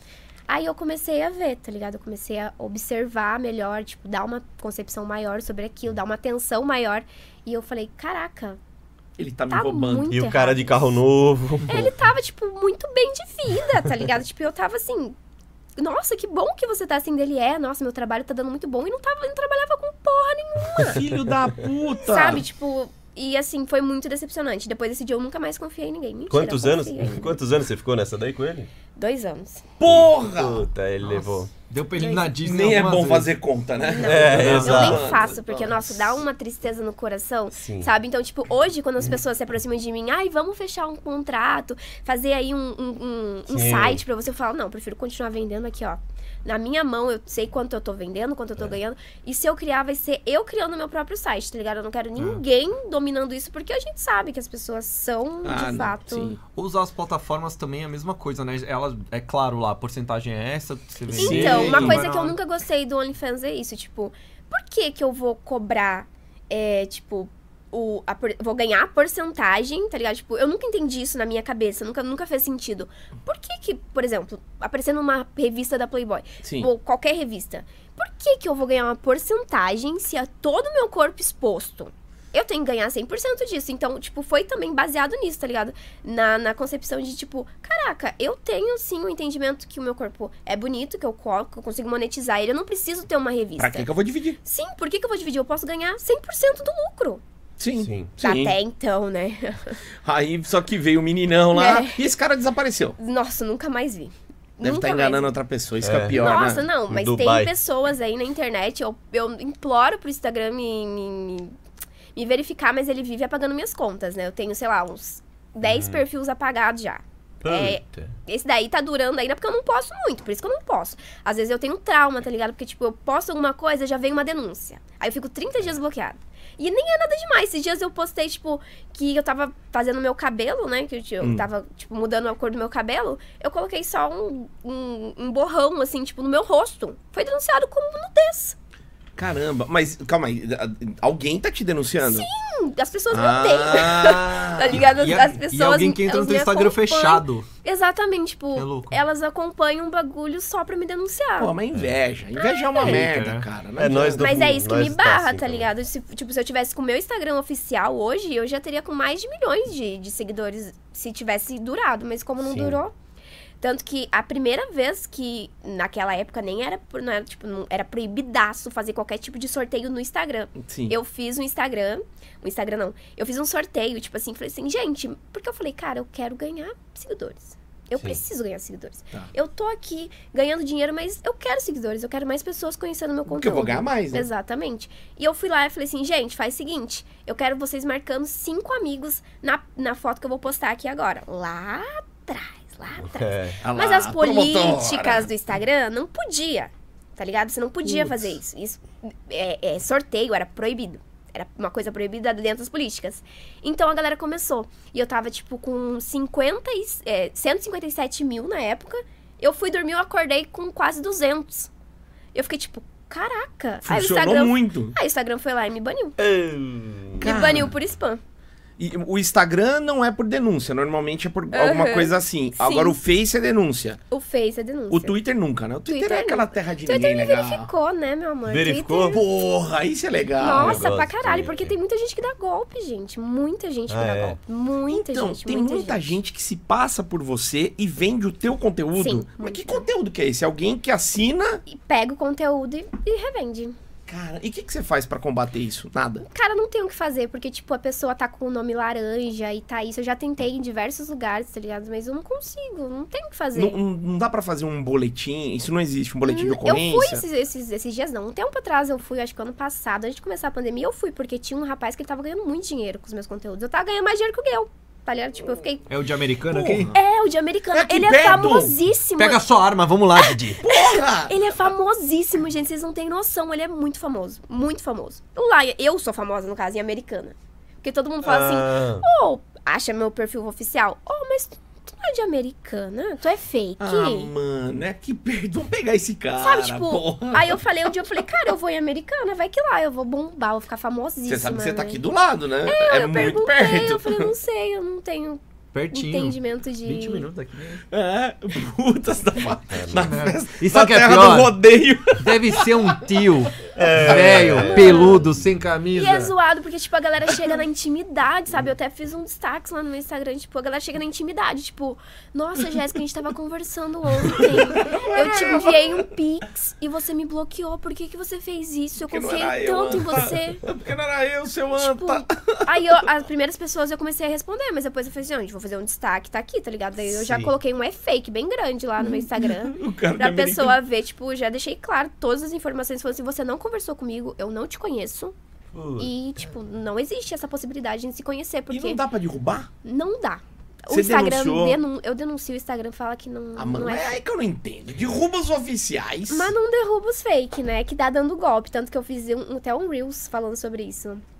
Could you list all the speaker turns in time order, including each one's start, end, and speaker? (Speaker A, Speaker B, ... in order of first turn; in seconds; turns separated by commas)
Speaker A: 0.5-8.6, Speaker B: 9.2-10.1, Speaker A: 9.5-10.8, Speaker C: 10.1-12.0, Speaker A: 11.7-15.2, Speaker A: 15.8-21.1, Speaker B: 20.8-22.4, Speaker A: 22.0-27.4, Speaker C: 26.3-28.7, Speaker A: 28.9-29.7, Speaker B: 29.8-30.7, Speaker C: 29.8-31.5, Speaker D: 31.7-33.3, Speaker A: 32.0-32.3, Speaker B: 32.4-36.2, Speaker A: 33.8-56.3, Speaker C: 34.0-35.1, Speaker D: 34.4-35.0, Speaker C: 37.5-37.9, Speaker C: 43.5-44.0, Speaker D: 52.2-52.4, Speaker B: 55.4-56.4, Speaker D: 56.5-62.4, Speaker B: 61.1-62.0, Speaker A: 61.1-93.9, Speaker B: 76.4-76.7, Speaker B: 93.6-94.4, Speaker A: 94.4-97.2, Speaker B: 97.6-98.6, Speaker C: 97.8-98.1, Speaker A: 98.2-99.8, Speaker B: 100.0-103.0, Speaker A: 101.5-102.0, Speaker A: 103.0-105.3, Speaker B: 104.6-106.7, Speaker C: 105.8-107.5, Speaker A: 106.1-111.6, Speaker A: 112.2-138.6, Speaker C: 115.6-116.0, Speaker C: 117.4-118.1, Speaker B: 131.2-131.5, Speaker B: 139.2-142.3, Speaker A: 142.0-151.5, Speaker B: 143.1-144.9, Speaker D: 144.8-147.5, Speaker D: 148.6-149.0, Speaker B: 151.4-154.5, Speaker A: 152.4-153.0, Speaker D: 152.8-153.5, Speaker C: 153.8-155.7, Speaker A: 154.2-162.9, Speaker C: 162.4-162.8, Speaker A: 163.6-211.7, Speaker B: 170.6-171.0, Speaker B: 183.3-184.3, Speaker C: 193.0-193.6, Speaker B: 193.6-195.3, Speaker B: 197.8-198.2, Speaker A: 212.3-216.2, Speaker B: 213.8-214.9, Speaker C: 216.2-217.3, Speaker A: 217.2-218.2, Speaker B: 217.2-217.7, Speaker B: 218.8-224.0, Speaker A: 221.5-223.0, Speaker A: 224.1-225.2, Speaker B: 224.9-227.7, Speaker A: 225.9-229.3, Speaker C: 228.5-229.2, Speaker B: 229.1-230.8, Speaker A: 230.4-236.2, Speaker C: 230.5-231.8, Speaker C: 233.9-234.4, Speaker B: 234.9-241.6, Speaker A: 239.0-239.9, Speaker A: 241.7-243.8, Speaker B: 244.1-246.2, Speaker A: 246.2-253.8, Speaker B: 253.5-257.2, Speaker A: 256.2-265.9, Speaker D: 265.9-266.9, Speaker B: 266.5-267.0, Speaker A: 266.9-269.4, Speaker B: 267.7-268.8, Speaker D: 269.2-270.6, Speaker A: 270.2-284.3, Speaker B: 270.6-271.4, Speaker C: 278.2-279.1, Speaker B: 283.8-287.6, Speaker A: 286.4-292.0, Speaker B: 291.3-294.3, Speaker A: 292.7-295.4, Speaker D: 295.7-297.9, Speaker A: 295.9-297.3, Speaker B: 297.9-303.1, Speaker C: 299.7-300.1, Speaker D: 300.0-301.5, Speaker D: 302.1-306.3, Speaker C: 303.8-305.4, Speaker B: 304.0-304.4, Speaker A: 304.6-305.3, Speaker A: 305.9-320.6, Speaker B: 314.4-316.0, Speaker B: 319.0-322.6, Speaker A: 321.8-335.4, Speaker C: 327.2-327.5, Speaker B: 329.0-330.8, Speaker C: 335.7-336.4, Speaker A: 336.0-339.0, Speaker B: 338.7-339.7, Speaker A: 339.8-344.2, Speaker B: 340.9-341.8, Speaker B: 343.6-346.6, Speaker A: 346.3-351.2